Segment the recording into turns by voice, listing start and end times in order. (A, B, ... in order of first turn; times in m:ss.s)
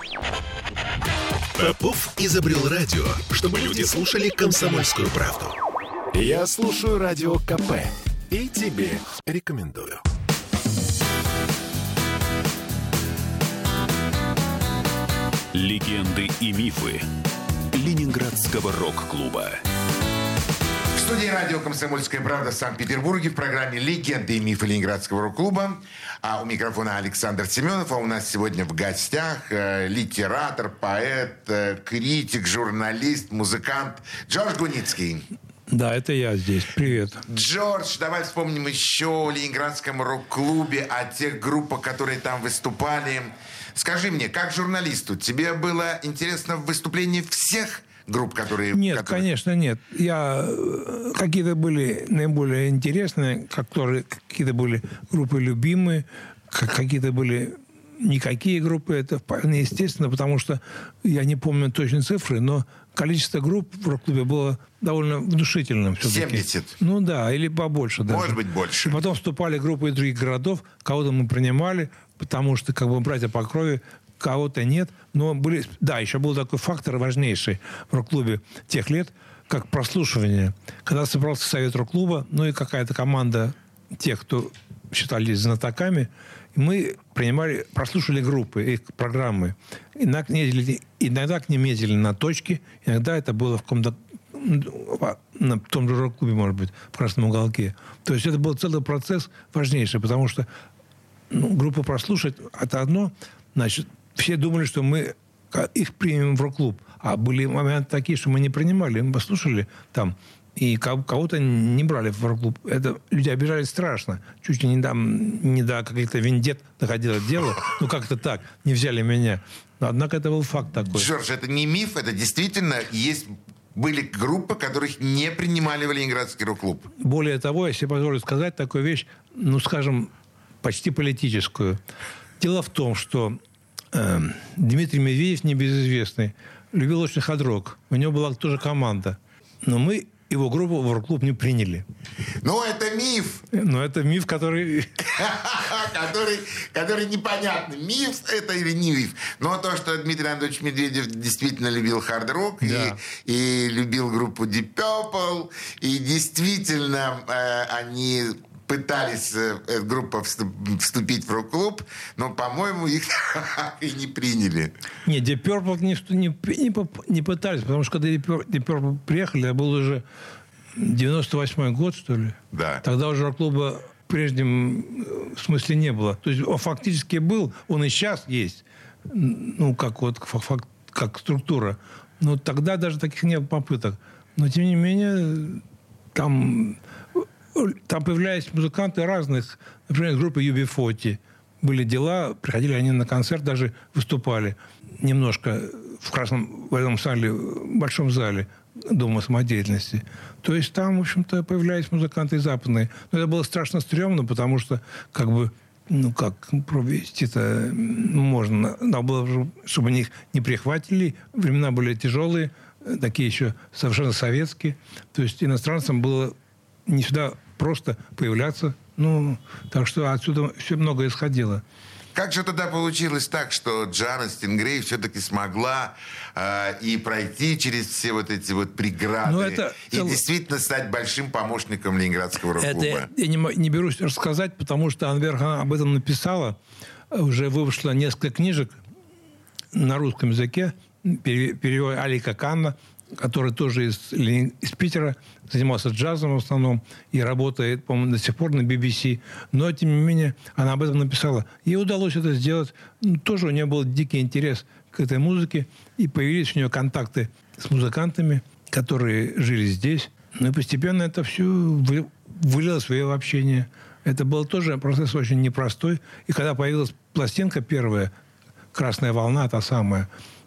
0:01.6-0:05.6 A
0:06.1-0:10.0 A
0:15.5-0:17.1 B
0:17.7-0:19.6 B
0:21.0-0:35.3 C
0:35.7-0:37.2 D
0:37.3-0:49.3 C
0:48.7-1:40.5 D
1:06.0-1:06.8 C
1:08.1-1:09.0 C
1:41.3-2:01.1 D
2:00.8-2:06.9 C
2:07.0-2:10.1 D
2:10.6-2:11.8 D
2:12.4-2:13.4 D
2:13.9-2:21.8 D
2:22.4-2:23.4 C
2:23.5-2:25.1 D
2:25.1-2:44.7 C
2:32.6-2:33.0 D
2:45.0-2:50.0 D
2:50.8-3:05.6 D
2:52.5-2:52.8 C
3:06.1-3:36.4 D
3:36.9-3:41.6 D
3:42.1-3:53.1 C
3:49.2-3:50.2 D
3:52.6-3:56.6 D
3:57.1-3:58.8 D
3:59.7-4:28.1 D
4:28.7-4:30.1 D